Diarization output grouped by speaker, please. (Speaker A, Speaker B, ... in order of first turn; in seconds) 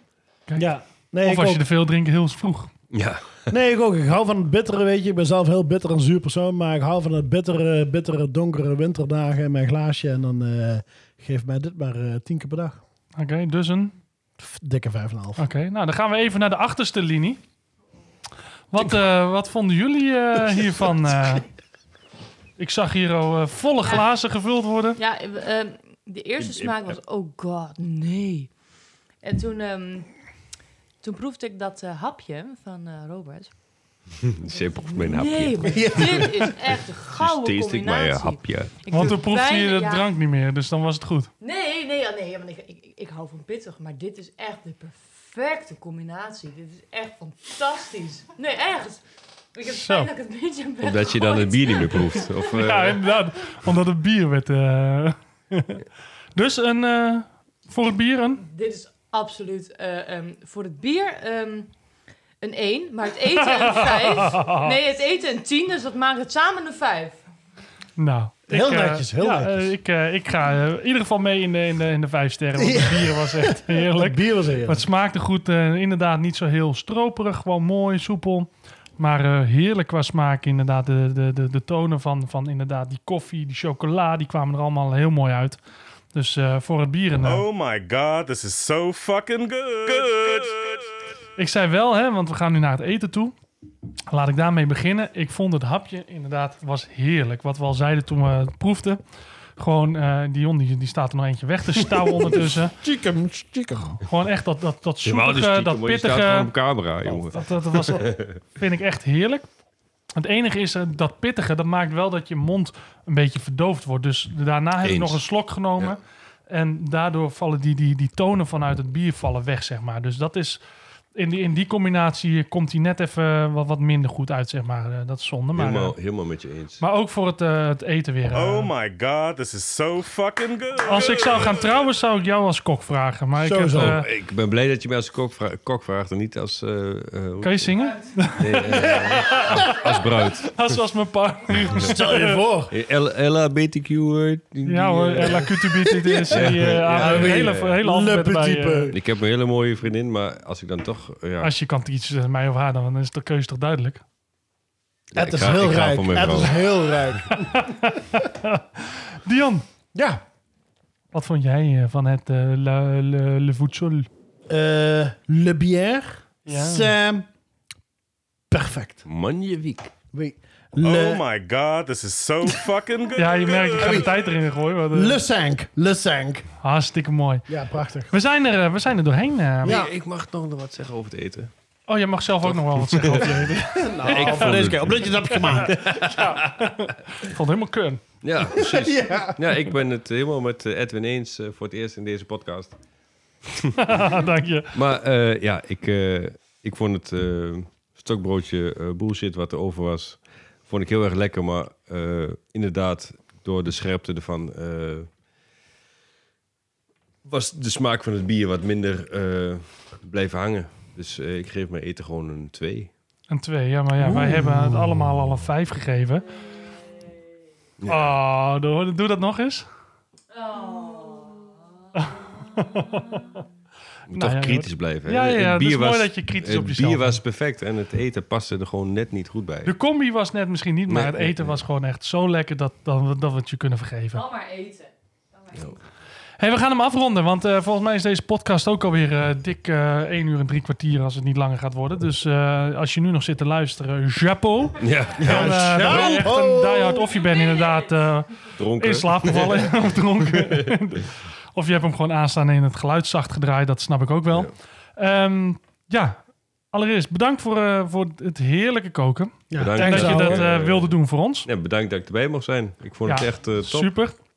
Speaker A: 0.6-1.6, 3.5-12.8, 14.4-15.4, 35.7-36.2, 68.5-69.7, 72.6-74.8, 102.2-104.0, 133.4-134.0, 141.8-142.7, 145.4-149.0, 155.2-157.9, 159.9-160.2, 164.5-167.3, 168.5-169.0, 170.1-171.2, 174.9-176.4, 177.5-178.1, 179.6-179.9, 183.7-186.1, 188.6-189.6, 214.0-215.0, 245.2-247.1, 259.5-260.5
Speaker B: 1.2-2.7, 13.2-13.9, 15.4-17.4, 18.7-21.4, 22.6-25.0, 38.9-41.3, 49.7-50.1, 52.5-55.8, 56.4-58.4, 63.4-64.8, 68.0-85.6, 86.1-87.5, 91.4-93.3, 94.1-99.0, 99.6-102.8, 104.1-106.5, 107.1-109.5, 110.2-120.6, 121.2-125.9, 126.8-128.7, 130.9-134.1, 137.4-139.9, 140.4-142.4, 144.7-148.9, 151.4-154.0, 157.3-159.6, 161.1-164.1, 166.5-166.9, 173.2-175.2, 176.6-177.5, 178.1-179.8, 181.9-188.0, 193.8-194.7, 213.3-216.2, 217.9-219.7, 222.1-223.3, 224.1-227.2, 229.7-234.3, 236.4-256.2, 256.7-261.5, 263.1-264.2
Speaker C: 2.9-3.5, 26.4-27.0, 34.3-39.1, 50.8-53.0, 105.0-108.4, 114.8-115.2, 125.5-126.8, 133.7-137.7, 138.3-140.6, 142.7-145.5, 146.3-147.8, 148.9-151.5, 155.1-156.5, 169.1-169.9, 179.6-181.5, 182.4-186.6, 188.2-192.8, 193.5-193.8, 194.7-205.1, 207.2-212.9, 217.8-218.1, 224.1-229.7, 230.9-231.6, 244.8-246.2, 248.6-250.8, 259.6-263.9
Speaker D: 25.0-28.5, 29.2-30.1, 31.0-33.5, 34.5-40.1, 41.4-49.0, 49.5-52.4, 58.4-61.7, 62.4-67.2, 220.4-221.4, 234.2-234.9, 235.4-235.7
Speaker E: 87.2-90.8, 128.3-131.5, 170.8-174.2